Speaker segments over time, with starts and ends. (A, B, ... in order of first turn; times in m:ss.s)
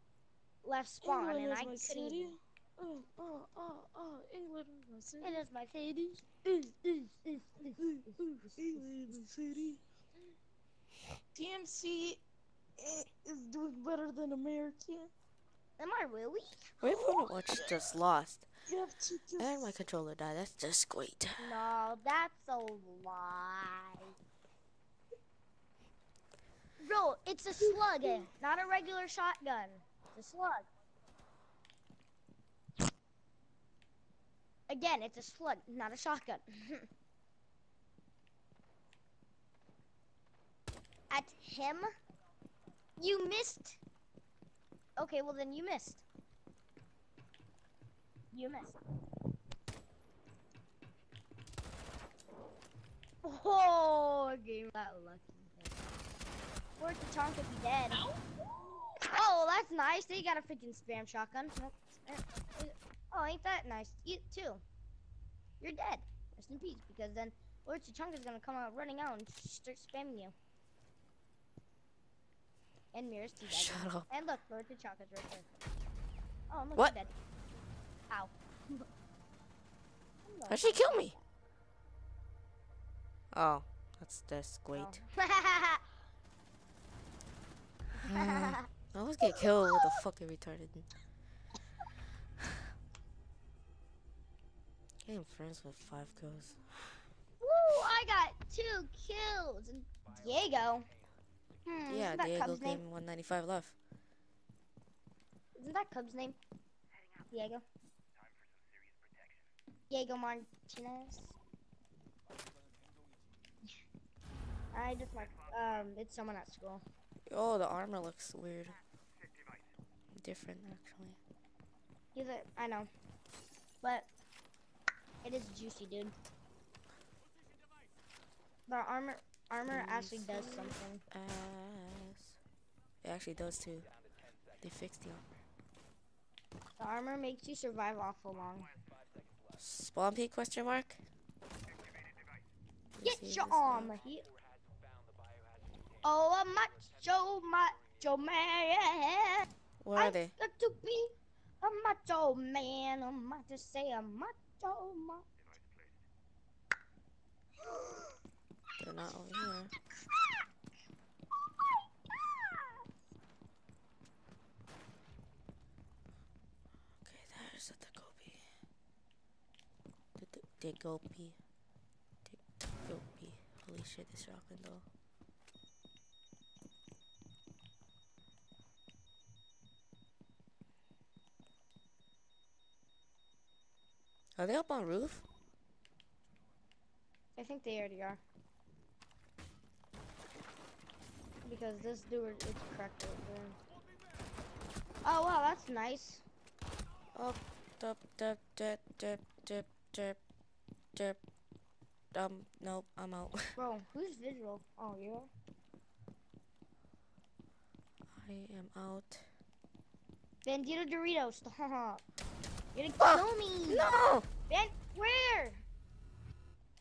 0:00.6-0:02.4 A
0:01.0-0:05.4 B
0:05.2-0:06.3 A
0:06.5-0:07.0 B
0:07.0-0:07.8 A
0:07.8-0:09.8 B
0:11.3-0:12.2 B
0:12.8-0:15.1 B
0:15.8-0:16.6 A
0:16.8-0:18.5 C
0:16.8-0:17.9 B
0:18.7-0:19.7 B
0:19.4-0:21.6 C
0:21.4-0:24.1 A
0:26.8-0:30.6 A
0:27.6-0:28.3 B
0:34.7-0:36.9 A
0:41.1-0:41.9 A
0:43.0-0:43.8 A
0:45.0-0:46.0 A
0:48.3-0:48.7 A
0:53.2-0:55.8 A
0:56.8-0:58.0 A
0:57.9-0:59.0 B
0:59.0-1:04.6 A
1:05.6-1:10.3 A
1:12.9-1:15.5 A
1:13.5-1:14.1 C
1:16.5-1:17.1 A
1:18.1-1:18.9 A
1:20.2-1:21.2 A
1:20.5-1:21.1 C
1:23.3-1:25.0 C
1:24.8-1:25.8 A
1:28.0-1:28.7 A
1:28.0-1:30.9 C
1:29.2-1:30.0 A
1:35.0-1:36.6 C
1:37.4-1:40.9 A
1:41.6-1:42.8 A
1:41.9-1:43.8 C
1:45.6-1:46.4 A
1:47.3-1:47.6 A
1:49.9-1:51.4 A
1:54.7-1:56.8 A
1:57.3-1:58.8 C
2:00.1-2:01.2 C
2:02.1-2:02.9 A
2:03.8-2:04.1 A
2:05.2-2:06.1 A
2:08.7-2:11.0 A
2:09.7-2:12.4 C
2:13.0-2:13.9 C
2:14.6-2:15.2 C
2:16.8-2:18.7 A
2:19.6-2:21.0 C
2:22.9-2:23.9 C
2:23.0-2:24.3 A
2:26.0-2:35.2 A
2:29.8-2:30.3 C
2:38.8-2:39.7 C
2:47.0-2:48.4 C
2:50.2-2:51.4 C
2:52.2-2:54.9 C
3:04.4-3:05.2 C
3:07.4-3:08.2 A
3:11.4-3:13.6 A
3:15.0-3:16.2 A
3:17.1-3:20.2 C
3:20.9-3:21.2 C
3:22.1-3:23.6 C
3:23.6-3:25.3 A
3:28.1-3:29.3 C
3:30.4-3:32.0 A
3:32.7-3:33.9 A
3:33.0-3:34.3 C
3:34.5-3:35.6 A